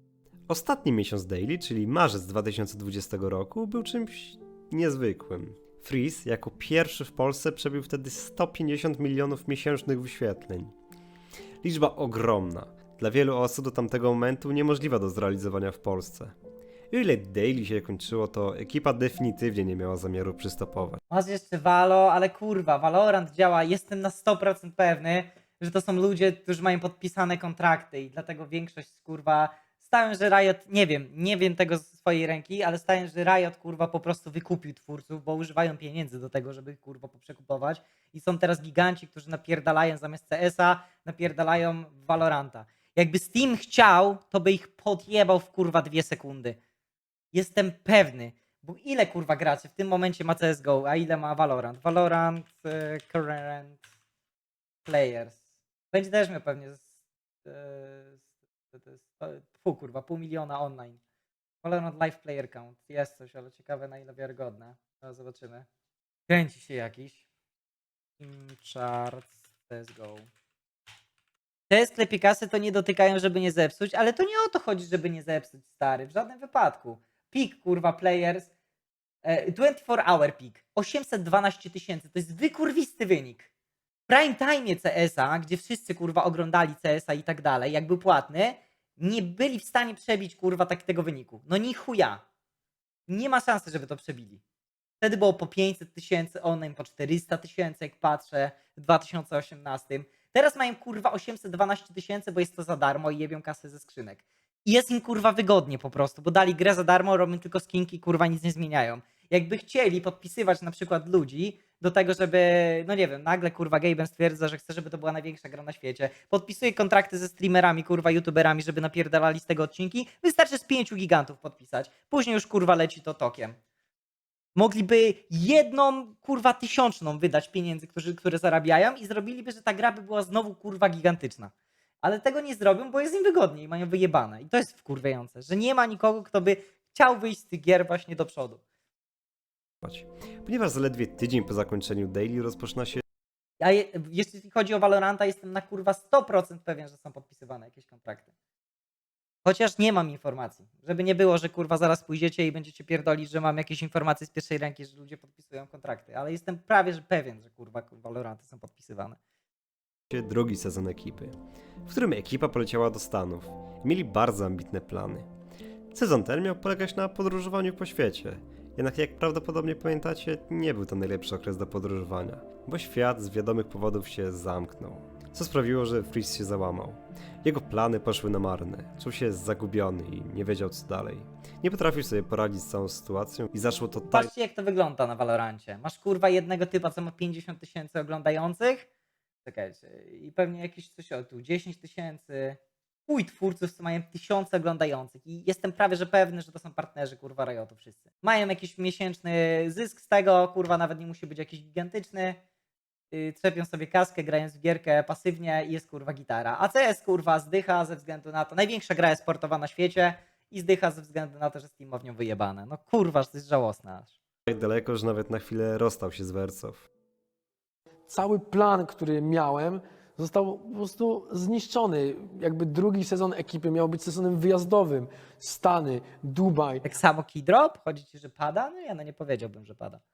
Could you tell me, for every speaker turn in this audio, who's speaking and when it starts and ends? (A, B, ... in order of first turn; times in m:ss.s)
0:00.5-0:10.7 A
0:11.6-0:16.4 A
0:16.9-0:21.0 A
0:21.1-0:46.6 B
0:47.3-0:53.8 B
0:54.8-0:55.4 B
0:55.9-0:56.8 B
0:57.4-0:58.2 B
0:58.7-1:01.0 B
1:01.6-1:05.7 B
1:06.3-1:07.2 B
1:08.2-1:10.3 B
1:11.7-1:18.5 B
1:19.2-1:23.5 B
1:24.1-1:32.2 B
1:33.1-1:34.4 B
1:35.0-2:03.6 B
2:04.6-2:18.6 B
2:19.8-2:23.0 A
2:23.6-2:28.3 B
2:29.4-2:39.2 B
2:40.1-2:45.3 A
2:45.9-3:04.3 A
3:04.1-3:08.9 B
3:09.4-3:22.4 B
3:23.1-3:34.2 B
3:34.5-3:36.9 A
3:38.1-3:46.8 C
3:46.8-3:50.0 B